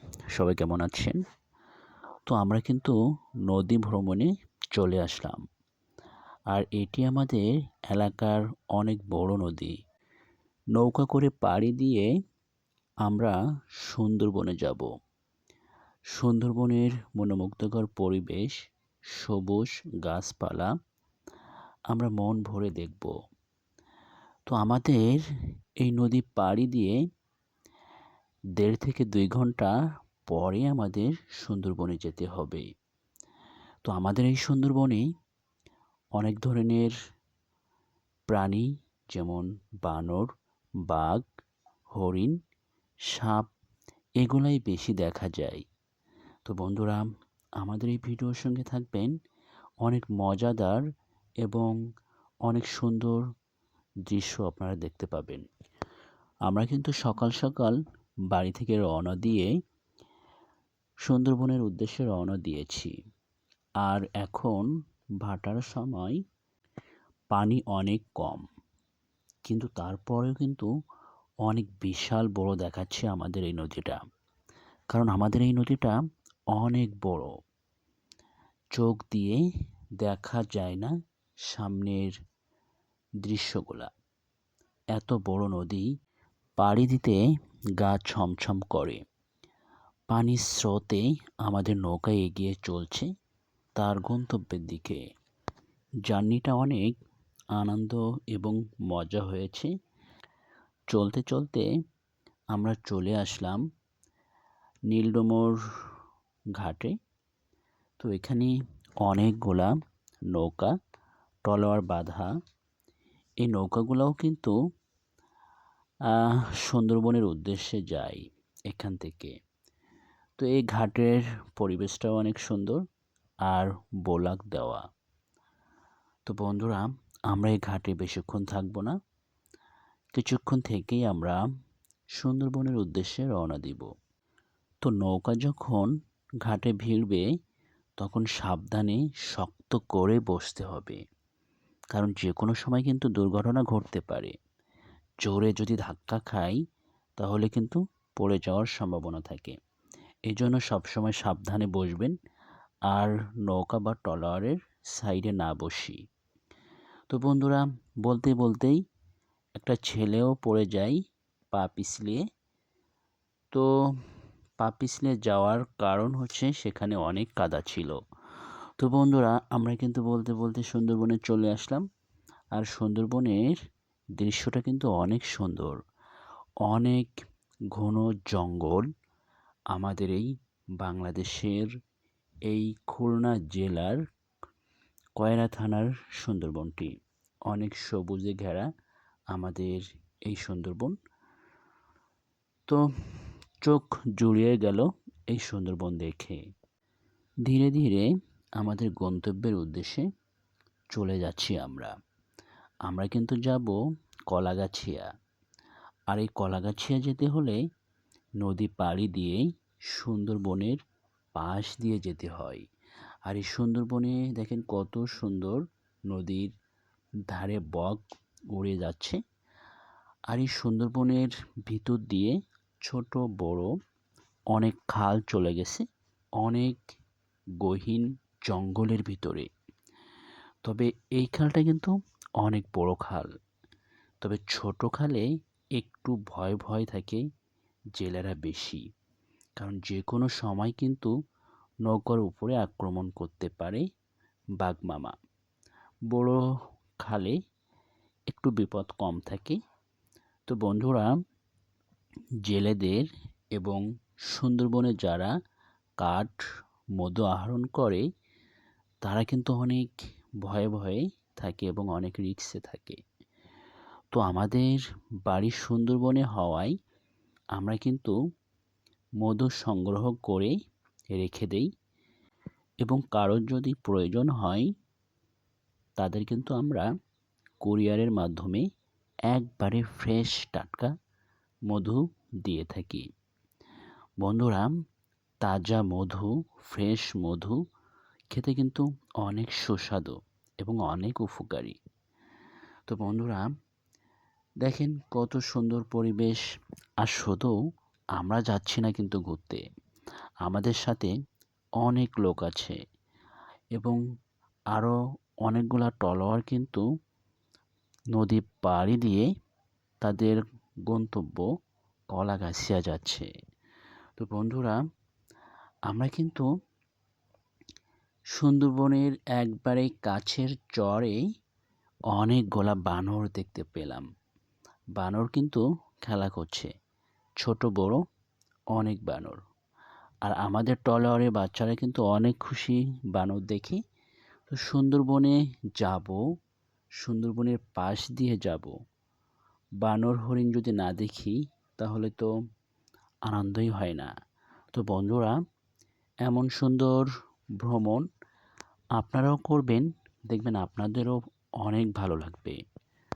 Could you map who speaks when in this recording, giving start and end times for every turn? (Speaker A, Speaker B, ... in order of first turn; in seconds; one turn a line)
Speaker A: 0.3-1.2
Speaker A: 2.3-5.4
Speaker A: 6.5-9.8
Speaker A: 10.7-12.1
Speaker A: 13.0-14.9
Speaker A: 16.1-18.6
Speaker A: 19.1-20.7
Speaker A: 21.9-23.1
Speaker A: 24.5-25.2
Speaker A: 25.8-27.0
Speaker A: 28.6-29.7
Speaker A: 30.3-32.6
Speaker A: 33.9-35.0
Speaker A: 36.1-36.9
Speaker A: 38.3-40.3
Speaker A: 40.9-41.2
Speaker A: 42.0-42.3
Speaker A: 43.1-43.5
Speaker A: 44.2-45.6
Speaker A: 46.5-47.0
Speaker A: 47.6-49.1
Speaker A: 49.8-50.8
Speaker A: 51.4-51.7
Speaker A: 52.5-53.2
Speaker A: 54.0-55.4
Speaker A: 56.5-57.8
Speaker A: 58.3-59.5
Speaker A: 61.0-62.9
Speaker A: 63.8-64.7
Speaker A: 65.2-66.2
Speaker A: 67.3-68.4
Speaker A: 69.5-70.7
Speaker A: 71.4-74.0
Speaker A: 74.9-76.0
Speaker A: 76.5-77.3
Speaker A: 78.7-79.4
Speaker A: 80.0-80.9
Speaker A: 81.5-82.2
Speaker A: 83.2-83.9
Speaker A: 84.9-85.9
Speaker A: 86.6-87.2
Speaker A: 87.8-89.0
Speaker A: 90.1-93.1
Speaker A: 93.8-95.0
Speaker A: 96.1-96.9
Speaker A: 97.5-99.7
Speaker A: 100.9-101.7
Speaker A: 102.5-103.6
Speaker A: 104.9-105.6
Speaker A: 106.5-106.9
Speaker A: 108.0-109.7
Speaker A: 110.3-110.7
Speaker A: 111.4-112.3
Speaker A: 113.4-114.5
Speaker A: 116.1-119.3
Speaker A: 120.4-122.8
Speaker A: 123.5-124.8
Speaker A: 126.3-129.0
Speaker A: 130.1-131.4
Speaker A: 132.1-133.9
Speaker A: 134.8-135.9
Speaker A: 136.4-137.2
Speaker A: 138.0-141.0
Speaker A: 141.9-144.3
Speaker A: 145.2-146.6
Speaker A: 147.2-149.6
Speaker A: 150.3-152.1
Speaker A: 152.9-156.0
Speaker A: 157.1-158.8
Speaker A: 159.6-161.0
Speaker A: 161.5-162.2
Speaker A: 164.6-168.0
Speaker A: 168.8-171.8
Speaker A: 172.5-173.6
Speaker A: 174.2-175.8
Speaker A: 176.6-177.1
Speaker A: 177.7-178.9
Speaker A: 179.7-180.3
Speaker A: 180.8-181.7
Speaker A: 182.5-184.0
Speaker A: 185.2-186.9
Speaker A: 187.5-188.7
Speaker A: 189.3-190.9
Speaker A: 193.6-196.4
Speaker A: 197.4-200.1
Speaker A: 200.9-201.9
Speaker A: 202.8-203.8
Speaker A: 204.3-205.1
Speaker A: 206.1-207.6
Speaker A: 208.4-210.8
Speaker A: 211.3-212.6
Speaker A: 213.2-216.5
Speaker A: 217.3-218.0
Speaker A: 218.5-219.2
Speaker A: 220.3-223.7
Speaker A: 224.5-225.8
Speaker A: 226.4-226.8
Speaker A: 227.6-229.5
Speaker A: 230.6-233.3
Speaker A: 234.2-237.2
Speaker A: 237.9-238.8
Speaker A: 239.6-241.1
Speaker A: 241.8-243.8
Speaker A: 244.6-245.2
Speaker A: 246.1-246.4
Speaker A: 247.0-247.4
Speaker A: 248.3-249.6
Speaker A: 250.5-251.1
Speaker A: 252.4-255.3
Speaker A: 256.0-256.4
Speaker A: 257.0-258.0
Speaker A: 259.0-259.9
Speaker A: 260.4-263.0
Speaker A: 264.1-266.7
Speaker A: 267.6-268.1
Speaker A: 269.2-270.5
Speaker A: 271.1-271.7
Speaker A: 272.8-274.7
Speaker A: 276.0-276.9
Speaker A: 277.6-278.6
Speaker A: 279.3-280.9
Speaker A: 281.7-283.1
Speaker A: 284.2-284.7
Speaker A: 285.4-287.6
Speaker A: 288.3-291.8
Speaker A: 292.9-293.5
Speaker A: 294.6-296.4
Speaker A: 297.0-297.5
Speaker A: 298.1-299.6
Speaker A: 300.4-301.1
Speaker A: 301.8-302.8
Speaker A: 304.7-306.8
Speaker A: 308.1-309.3
Speaker A: 310.0-311.5
Speaker A: 312.1-313.3
Speaker A: 314.2-314.8
Speaker A: 315.9-316.5
Speaker A: 318.4-321.2
Speaker A: 322.1-324.1
Speaker A: 324.9-326.7
Speaker A: 327.4-328.0
Speaker A: 328.7-329.4
Speaker A: 330.2-333.8
Speaker A: 334.5-336.2
Speaker A: 337.0-338.7
Speaker A: 339.8-342.3
Speaker A: 343.3-344.1
Speaker A: 344.7-345.4
Speaker A: 346.2-347.1
Speaker A: 347.6-348.0
Speaker A: 349.0-352.6